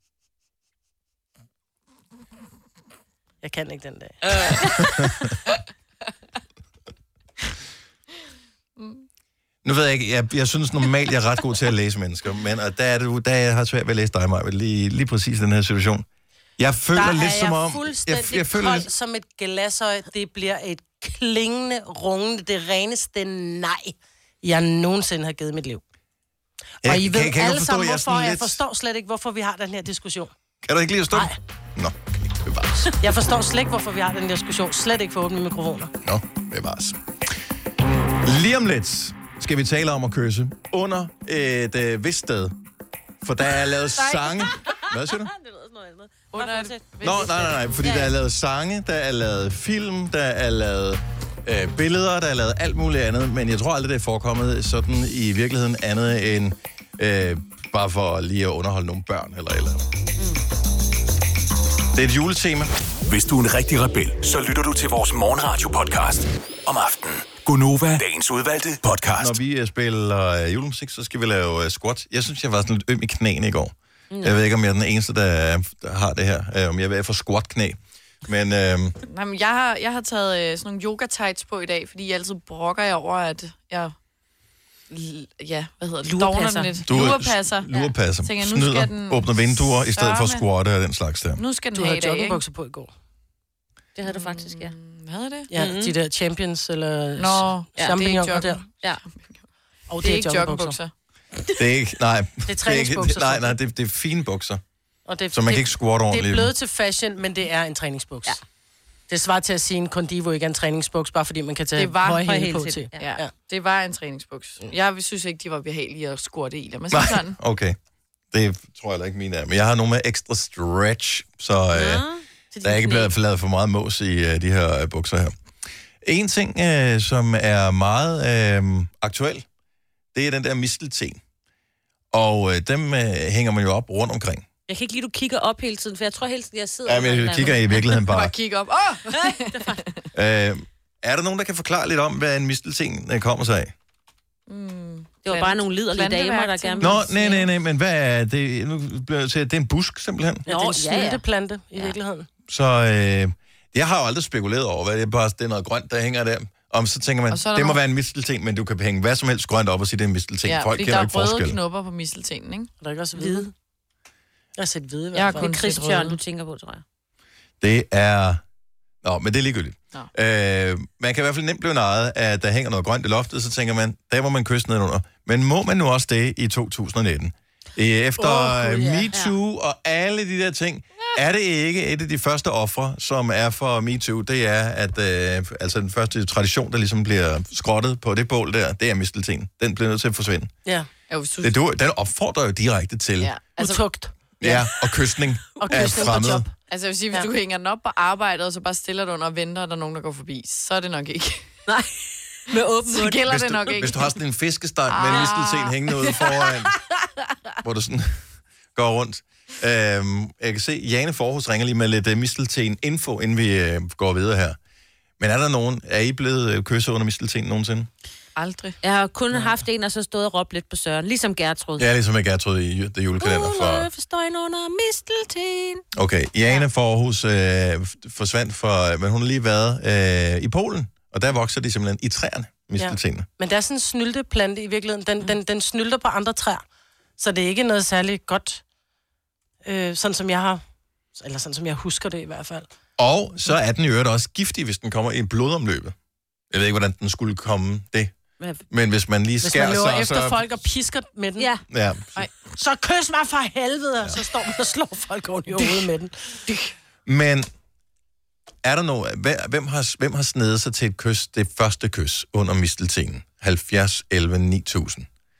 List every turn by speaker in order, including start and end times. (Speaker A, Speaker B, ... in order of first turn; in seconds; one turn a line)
Speaker A: 3.4-4.8
Speaker B: 4.7-5.3
Speaker C: 8.8-9.0
Speaker B: 9.6-16.1
Speaker B: 16.6-18.9
Speaker A: 16.9-25.8
Speaker A: 26.8-30.3
Speaker B: 26.8-28.6
Speaker B: 30.6-32.9
Speaker A: 33.0-35.9
Speaker B: 36.0-37.0
Speaker B: 38.2-42.5
Speaker B: 43.2-45.3
Speaker D: 45.4-46.7
Speaker C: 46.3-47.6
Speaker A: 46.4-46.7
Speaker B: 47.0-59.8
Speaker D: 47.8-48.1
Speaker B: 61.9-62.7
Speaker E: 63.0-69.4
Speaker B: 69.2-79.0
Speaker D: 74.1-74.4
Speaker C: 79.0-83.9
Speaker C: 84.9-87.7
Speaker D: 86.0-86.8
Speaker B: 86.8-91.4
Speaker C: 88.2-90.4
Speaker C: 91.3-92.4
Speaker A: 91.7-92.9
Speaker D: 94.0-94.7
Speaker C: 94.0-95.5
Speaker A: 95.5-98.6
Speaker D: 95.5-95.9
Speaker C: 97.2-99.3
Speaker D: 97.8-98.0
Speaker A: 99.9-100.8
Speaker C: 100.0-100.9
Speaker B: 101.5-104.6
Speaker A: 102.5-103.5
Speaker A: 105.1-108.4
Speaker B: 105.3-106.5
Speaker A: 109.1-113.3
Speaker C: 111.8-112.3
Speaker D: 112.1-113.0
Speaker C: 113.0-117.4
Speaker B: 116.9-117.8
Speaker B: 118.3-122.0
Speaker D: 121.7-123.0
Speaker A: 122.5-123.0
Speaker B: 122.6-125.3
Speaker B: 126.0-129.4
Speaker B: 130.1-131.2
Speaker B: 132.1-134.4
Speaker D: 134.7-137.6
Speaker B: 136.8-138.3
Speaker C: 137.9-140.0
Speaker B: 140.1-143.7
Speaker C: 144.5-147.0
Speaker D: 145.2-147.5
Speaker B: 146.8-150.4
Speaker A: 150.4-152.3
Speaker D: 150.5-151.2
Speaker B: 152.5-161.6
Speaker C: 157.3-157.8
Speaker C: 160.4-162.7
Speaker A: 162.8-163.5
Speaker A: 164.6-165.5
Speaker C: 165.1-166.2
Speaker D: 165.3-166.8
Speaker B: 167.6-168.4
Speaker B: 169.0-190.5
Speaker A: 178.2-179.1
Speaker C: 191.1-191.6
Speaker B: 191.4-193.3
Speaker C: 193.2-193.8
Speaker A: 193.6-194.6
Speaker B: 194.4-196.5
Speaker A: 195.6-196.5
Speaker C: 195.7-201.4
Speaker D: 201.7-203.7
Speaker C: 202.8-204.1
Speaker B: 203.3-206.7
Speaker C: 204.9-206.5
Speaker B: 207.6-208.2
Speaker B: 208.7-214.6
Speaker B: 215.2-217.9
Speaker C: 218.3-218.8
Speaker D: 218.8-221.9
Speaker B: 221.8-223.9
Speaker D: 223.2-225.8
Speaker B: 225.9-233.3
Speaker A: 232.8-236.6
Speaker A: 237.2-238.6
Speaker A: 239.6-240.6
Speaker A: 241.2-242.7
Speaker B: 243.0-245.9
Speaker B: 246.5-248.1
Speaker B: 248.7-250.4
Speaker A: 249.4-251.5
Speaker D: 251.4-251.6
Speaker B: 251.7-252.2
Speaker A: 252.5-256.1
Speaker B: 257.1-257.5
Speaker B: 258.6-265.1